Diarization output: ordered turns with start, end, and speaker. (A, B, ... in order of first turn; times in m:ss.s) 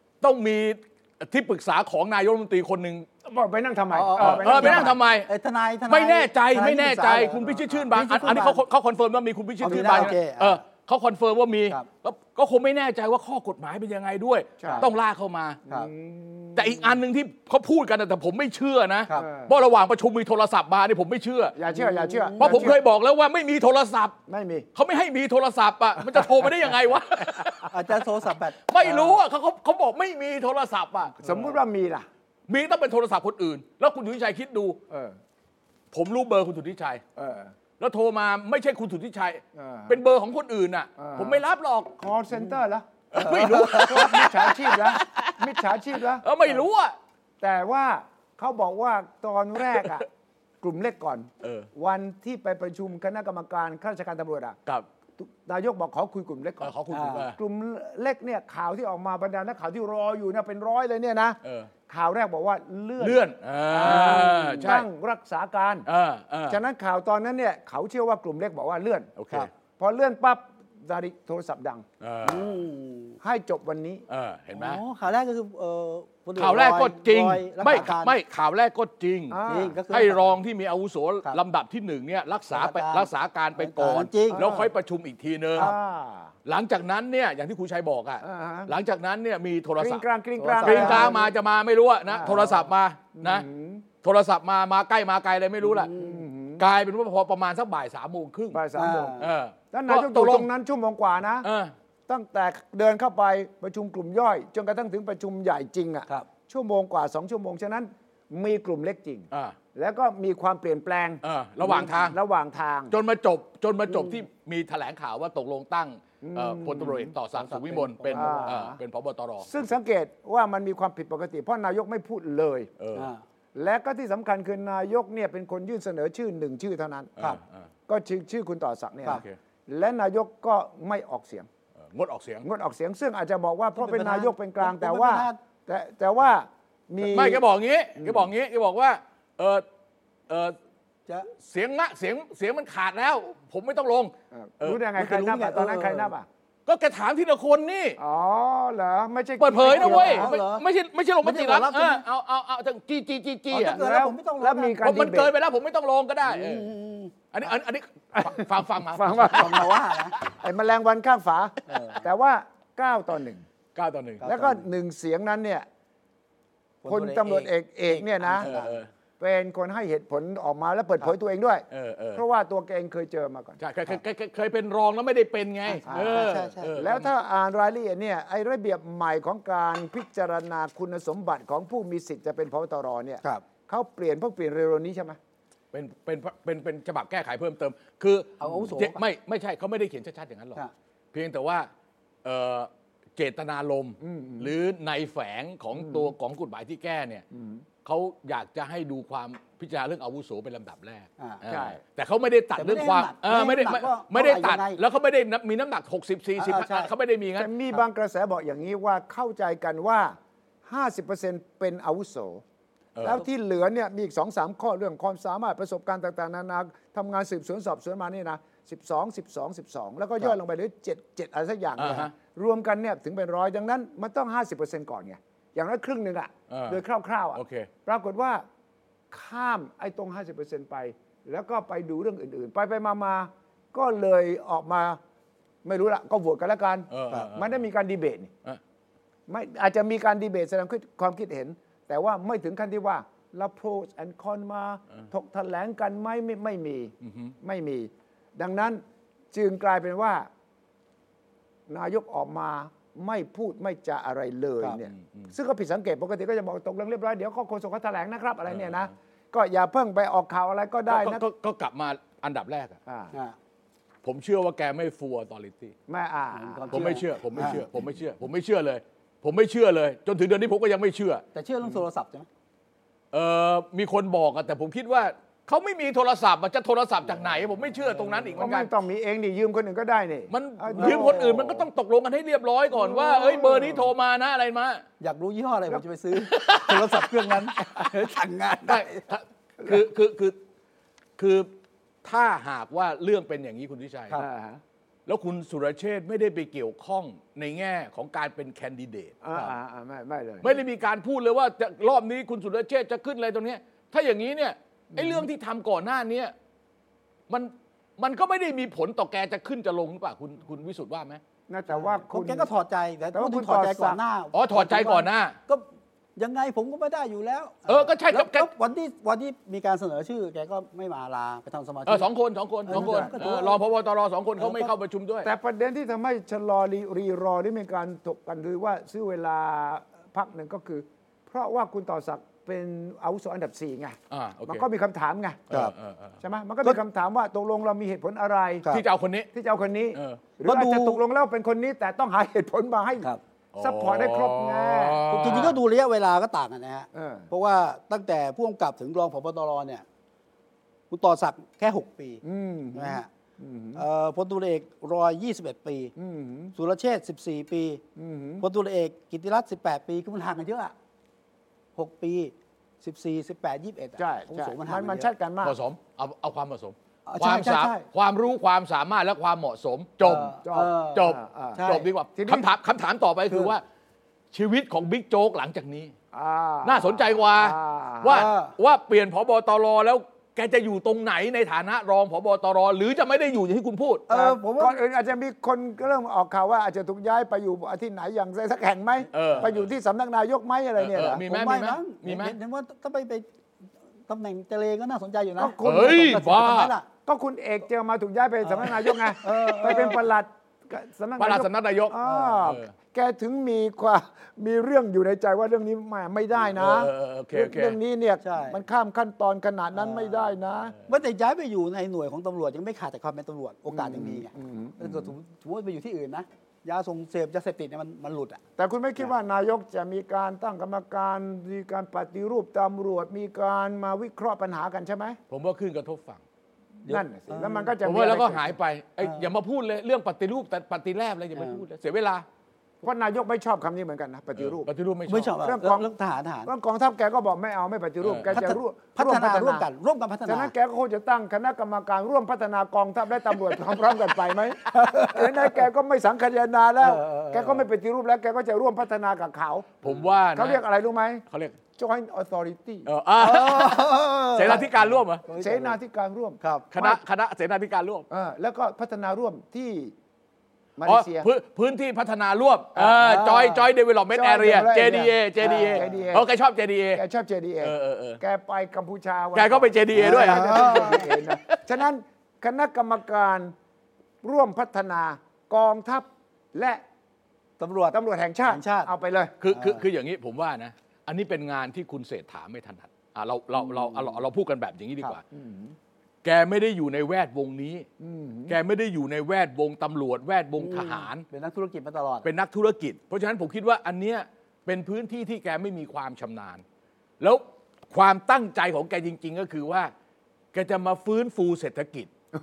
0:00.2-0:03.0 A
0:03.2-0:05.0 B
0:03.9-0:08.6 C
0:04.2-0:05.3 A
0:05.9-0:15.6 A
0:09.6-0:10.6 C
0:09.7-0:10.1 B
0:14.6-0:14.9 B
0:14.6-0:14.9 C
0:15.7-0:17.0 B
0:16.5-0:21.6 A
0:19.2-0:19.6 B
0:21.5-0:22.8 B
0:21.7-0:22.7 C
0:22.4-0:24.2 A
0:24.3-0:24.7 B
0:24.7-0:27.7 A
0:27.7-0:29.2 C
0:28.7-0:31.3 A
0:31.2-0:32.1 B
0:32.5-0:34.8 A
0:34.9-0:35.2 B
0:35.9-0:37.0 A
0:37.2-0:37.5 B
0:37.8-0:42.0 A
0:39.5-0:40.0 B
0:41.0-0:41.4 B
0:42.0-0:42.9 B
0:43.1-0:45.6 A
0:43.1-0:44.4 C
0:43.7-0:46.3 B
0:46.2-0:46.9 A
0:47.4-0:50.1 B
0:50.6-0:54.6 B
0:51.4-0:51.7 A
0:55.2-1:05.9 B
0:56.6-0:57.4 A
0:56.9-0:57.3 C
1:01.4-1:01.7 A
1:03.0-1:04.8 A
1:03.9-1:04.4 C
1:05.8-1:06.6 A
1:06.5-1:09.1 B
1:09.2-1:09.5 A
1:09.8-1:11.8 B
1:12.0-1:12.6 A
1:12.2-1:13.2 C
1:13.2-1:14.0 B
1:14.1-1:14.8 A
1:14.5-1:18.2 C
1:16.4-1:25.7 A
1:19.3-1:19.8 B
1:19.4-1:20.4 C
1:22.5-1:24.4 C
1:24.3-1:24.7 B
1:25.6-1:26.3 B
1:26.4-1:30.0 A
1:28.2-1:28.7 B
1:29.8-1:31.3 B
1:30.4-1:31.2 C
1:30.6-1:33.5 A
1:32.1-1:32.5 B
1:33.2-1:33.8 B
1:34.0-1:35.9 A
1:35.6-1:36.2 C
1:35.9-1:36.6 B
1:36.6-1:38.6 A
1:38.5-1:41.5 B
1:38.8-1:39.3 C
1:39.2-1:40.5 A
1:41.4-1:41.7 A
1:42.1-1:52.9 B
1:51.2-1:52.2 A
1:52.9-1:59.6 A
1:53.9-1:54.2 C
1:56.2-1:57.1 B
1:57.3-1:58.6 C
1:58.1-1:58.8 B
1:59.4-2:02.7 B
2:02.8-2:03.1 A
2:02.9-2:03.2 C
2:03.5-2:07.1 B
2:07.2-2:07.7 A
2:07.9-2:11.5 B
2:09.1-2:09.4 A
2:11.9-2:12.5 A
2:12.4-2:17.4 B
2:13.8-2:15.4 C
2:17.0-2:19.6 A
2:18.0-2:18.3 B
2:20.3-2:20.6 A
2:21.4-2:24.8 A
2:24.3-2:26.3 B
2:25.0-2:26.1 C
2:26.7-2:28.0 A
2:28.0-2:30.3 B
2:29.4-2:33.8 A
2:29.6-2:30.6 C
2:31.2-2:32.0 C
2:33.5-2:35.3 B
2:33.5-2:34.8 C
2:34.8-2:36.7 A
2:36.2-2:37.1 C
2:37.3-2:39.6 A
2:38.1-2:39.7 B
2:39.2-2:40.2 C
2:40.4-2:43.4 B
2:41.7-2:42.0 C
2:43.7-2:44.2 A
2:44.2-2:44.6 C
2:44.2-2:45.6 B
2:46.8-2:48.8 C
2:46.8-2:48.5 B
2:48.4-2:48.9 A
2:49.2-2:53.6 B
2:51.7-2:52.2 A
2:53.6-2:57.1 A
2:55.6-2:56.7 C
2:55.9-3:05.2 B
3:05.7-3:10.6 A
3:08.4-3:09.0 C
3:11.1-3:11.7 A
3:12.2-3:17.2 A
3:14.0-3:14.5 B
3:15.8-3:16.1 B
3:17.3-3:17.6 B
3:17.8-3:27.5 A
3:21.4-3:21.8 B
3:22.5-3:24.8 C
3:26.4-3:26.9 C
3:27.4-3:32.4 B
3:33.0-3:33.2 A
3:33.0-3:48.4 B
3:41.8-3:42.1 A
3:46.5-3:46.8 A
3:47.3-3:47.7 A
3:49.1-3:55.0 B
3:55.6-3:58.3 B
3:56.9-3:57.6 A
3:59.3-4:10.3 B
4:07.0-4:07.3 A
4:11.7-4:21.2 B
4:14.9-4:15.3 A
4:20.9-4:22.8 A
4:22.8-4:23.1 B
4:24.0-4:25.7 A
4:25.9-4:27.0 B
4:26.3-4:27.6 C
4:26.7-4:31.2 A
4:31.3-4:32.3 C
4:33.1-4:38.7 A
4:37.8-4:38.4 C
4:38.4-4:41.6 B
4:40.3-4:44.8 A
4:40.7-4:41.4 C
4:42.7-4:43.9 B
4:45.0-4:49.0 C
4:46.2-4:47.3 A
4:48.6-4:50.4 A
4:51.2-4:51.5 A
4:52.0-4:54.2 A
4:54.1-4:54.6 B
4:55.1-4:59.2 A
4:59.2-5:00.6 B
5:00.4-5:06.3 A
5:04.9-5:05.2 B
5:07.3-5:11.2 A
5:11.5-5:12.5 B
5:11.7-5:22.1 C
5:13.1-5:14.0 B
5:14.3-5:15.4 A
5:17.7-5:18.5 A
5:21.8-5:25.3 A
5:22.6-5:23.6 C
5:22.7-5:23.3 B
5:24.4-5:24.7 C
5:25.2-5:35.4 B
5:34.1-5:34.6 A
5:35.5-5:36.2 A
5:36.2-5:38.6 B
5:38.7-5:39.3 A
5:39.3-5:45.5 B
5:39.9-5:40.2 A
5:40.4-5:41.0 C
5:43.5-5:45.6 A
5:45.1-5:49.8 C
5:46.9-5:47.3 B
5:50.9-5:52.2 C
5:52.2-5:53.8 B
5:52.7-5:53.1 C
5:53.7-5:55.9 C
5:56.0-5:56.5 B
5:56.5-5:57.8 C
5:58.0-5:58.4 B
5:58.4-6:00.7 C
6:01.8-6:05.1 C
6:04.0-6:05.6 B
6:05.4-6:10.4 A
6:07.1-6:07.8 C
6:10.0-6:11.9 C
6:10.4-6:12.5 B
6:10.9-6:13.6 A
6:14.3-6:15.9 A
6:16.1-6:18.3 B
6:16.6-6:24.1 A
6:18.0-6:18.5 C
6:24.1-6:24.8 C
6:24.1-6:31.2 B
6:29.1-6:29.7 A
6:30.8-6:32.4 A
6:31.2-6:33.2 C
6:34.1-6:36.8 C
6:35.4-6:36.2 B
6:35.6-6:36.7 A
6:37.0-6:50.8 B
6:38.4-6:40.0 C
6:41.2-6:42.7 A
6:42.0-6:42.4 C
6:46.6-6:47.8 A
6:48.2-6:48.6 C
6:49.7-6:58.4 C
6:53.7-6:55.1 B
6:58.6-7:05.2 B
7:05.3-7:06.2 A
7:06.8-7:07.7 C
7:06.8-7:08.6 B
7:07.8-7:12.2 A
7:09.0-7:09.3 C
7:11.3-7:11.6 C
7:12.8-7:14.7 B
7:14.4-7:15.4 A
7:15.1-7:16.5 C
7:15.4-7:15.9 B
7:16.4-7:19.6 B
7:18.0-7:18.4 A
7:18.3-7:20.5 C
7:20.2-7:31.2 B
7:24.7-7:25.6 C
7:26.8-7:27.6 C
7:29.8-7:30.6 A
7:31.3-7:31.6 A
7:31.8-7:32.9 B
7:32.8-7:35.2 A
7:33.2-7:35.8 C
7:35.3-7:37.0 B
7:36.7-7:38.0 A
7:38.1-7:39.9 B
7:40.8-7:41.3 B
7:40.8-7:47.0 A
7:42.8-7:43.7 C
7:44.1-7:46.3 B
7:45.4-7:46.0 C
7:46.9-7:53.5 B
7:47.6-7:48.2 A
7:49.3-7:51.6 A
7:49.9-7:51.0 C
7:54.2-7:56.8 B
7:57.6-7:58.0 C
7:57.9-7:59.3 B
7:58.5-7:58.9 C
7:59.4-8:05.2 A
7:59.5-7:59.8 C
8:05.3-8:05.8 B
8:06.2-8:07.8 A
8:08.0-8:08.6 B
8:08.5-8:11.2 A
8:10.6-8:12.3 C
8:12.2-8:16.6 A
8:17.2-8:19.9 A
8:20.5-8:22.1 A